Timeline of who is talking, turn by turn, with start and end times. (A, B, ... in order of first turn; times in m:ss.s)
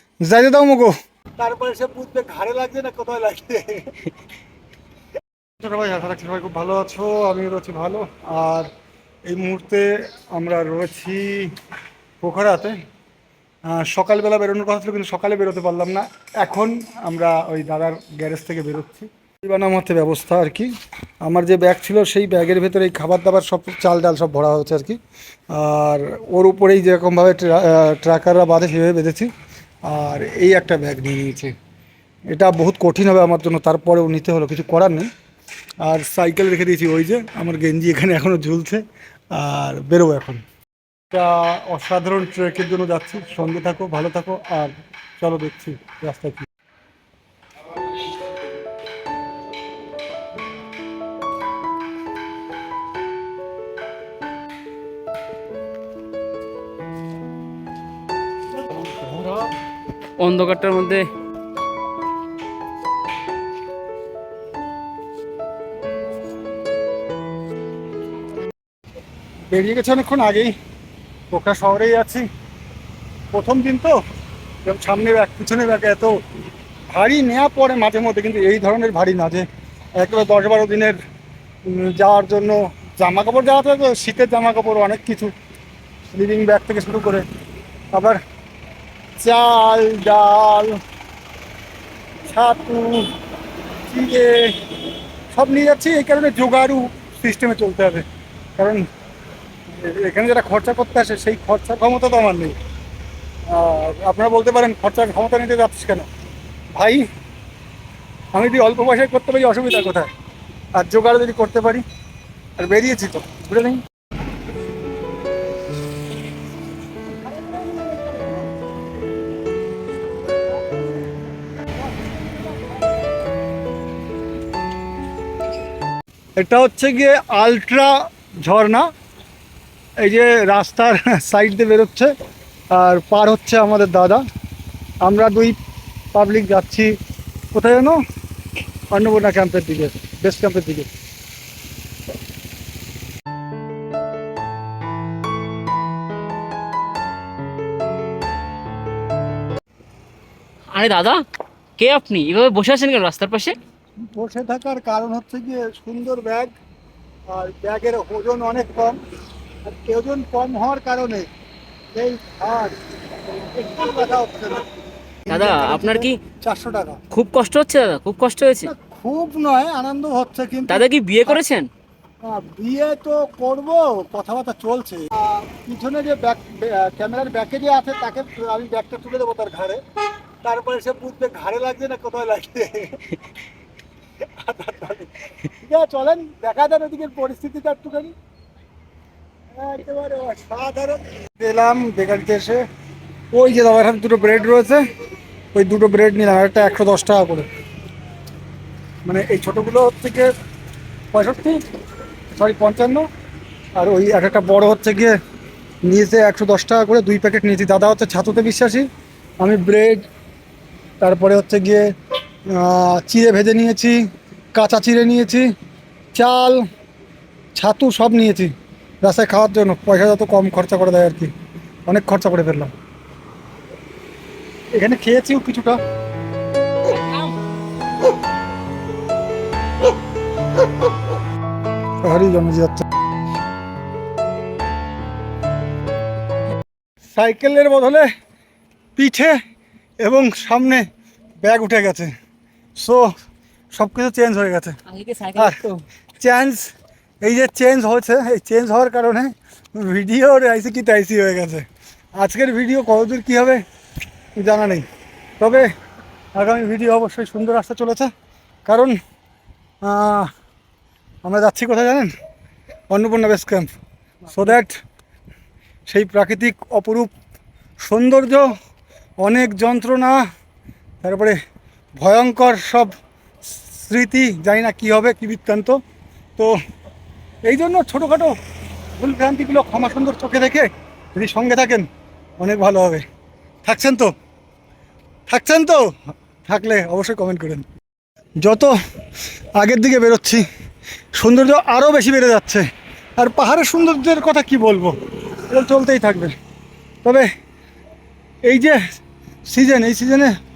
0:00.2-0:04.1 A
0:05.6-0:08.7 A
0:09.3-0:11.6 A
0:12.2-0:12.8 A
0:13.7-0:20.7 A
0:21.2-0:25.0 A
0:25.5-0:29.3 A
0:29.9-0:31.5 A
0:32.3-0:35.1 A
0:35.8-0:38.8 A
0:39.3-0:40.4 A
0:41.1-0:46.5 A
0:58.8-0:59.4 A
1:00.2-1:01.1 B
1:09.5-1:10.5 A
1:11.3-1:12.3 A
1:13.3-1:14.0 A
1:14.6-1:16.2 A
1:16.9-1:21.0 A
1:21.7-1:25.3 A
1:26.1-1:27.2 A
1:27.9-1:28.2 A
1:29.2-1:30.8 A
1:32.3-1:33.1 A
1:33.9-1:38.1 A
1:38.6-1:38.8 A
1:39.7-1:42.6 A
1:43.5-1:46.1 A
1:46.7-1:47.1 A
1:48.3-1:50.1 A
1:50.8-1:51.8 A
1:52.6-1:53.8 A
2:06.4-2:08.9 A
2:10.0-2:12.1 A
2:12.7-2:14.2 A
2:15.0-2:15.6 A
2:16.1-2:16.9 A
2:17.5-2:18.0 A
2:18.9-2:20.9 A
2:30.7-2:31.2 B
2:31.8-2:33.6 B
2:34.0-2:36.5 A
2:37.3-2:39.0 A
2:39.6-2:41.3 A
2:41.9-2:44.7 A
2:45.2-2:47.0 A
2:45.3-2:46.2 B
2:47.1-2:48.7 B
2:48.6-2:51.4 A
2:50.7-2:51.7 B
2:52.2-2:59.8 A
3:00.4-3:03.2 A
3:04.3-3:08.2 A
3:09.6-3:12.6 A
3:13.3-3:14.8 A
3:15.5-3:17.5 A
3:19.1-3:20.3 A
3:21.1-3:21.6 A
3:22.3-3:23.1 A
3:23.8-3:25.2 A
3:25.8-3:28.9 A
3:29.4-3:30.1 A
3:31.0-3:31.9 A
3:32.5-3:34.0 A
3:34.5-3:35.5 A
3:36.1-3:36.6 A
3:37.6-3:38.5 A
3:39.0-3:41.3 A
3:41.8-3:42.7 A
3:44.7-3:45.8 A
3:46.9-3:47.3 B
3:52.0-3:52.8 A
3:57.1-3:58.1 A
3:59.0-3:59.4 A
4:00.0-4:00.8 A
4:01.4-4:02.1 A
4:02.8-4:03.1 A
4:03.7-4:04.8 A
4:04.9-4:05.8 B
4:05.3-4:05.6 A
4:06.2-4:13.6 A
4:14.4-4:14.8 A
4:15.4-4:15.7 A
4:16.4-4:18.1 A
4:18.6-4:19.0 A
4:19.8-4:20.3 A
4:21.2-4:22.1 A
4:22.9-4:23.7 A
4:24.3-4:24.8 A
4:25.9-4:27.1 A
4:27.8-4:28.5 A
4:29.2-4:30.2 A
4:31.0-4:31.4 A
4:32.0-4:32.9 A
4:33.5-4:35.8 A
4:37.4-4:38.4 A
4:39.0-4:41.9 A
4:42.4-4:43.0 A
4:43.6-4:44.1 A
4:45.3-4:47.6 A
4:48.4-4:48.7 A
4:49.6-4:50.4 A
4:51.2-4:56.3 A
4:58.4-4:58.8 A
4:59.4-5:00.3 A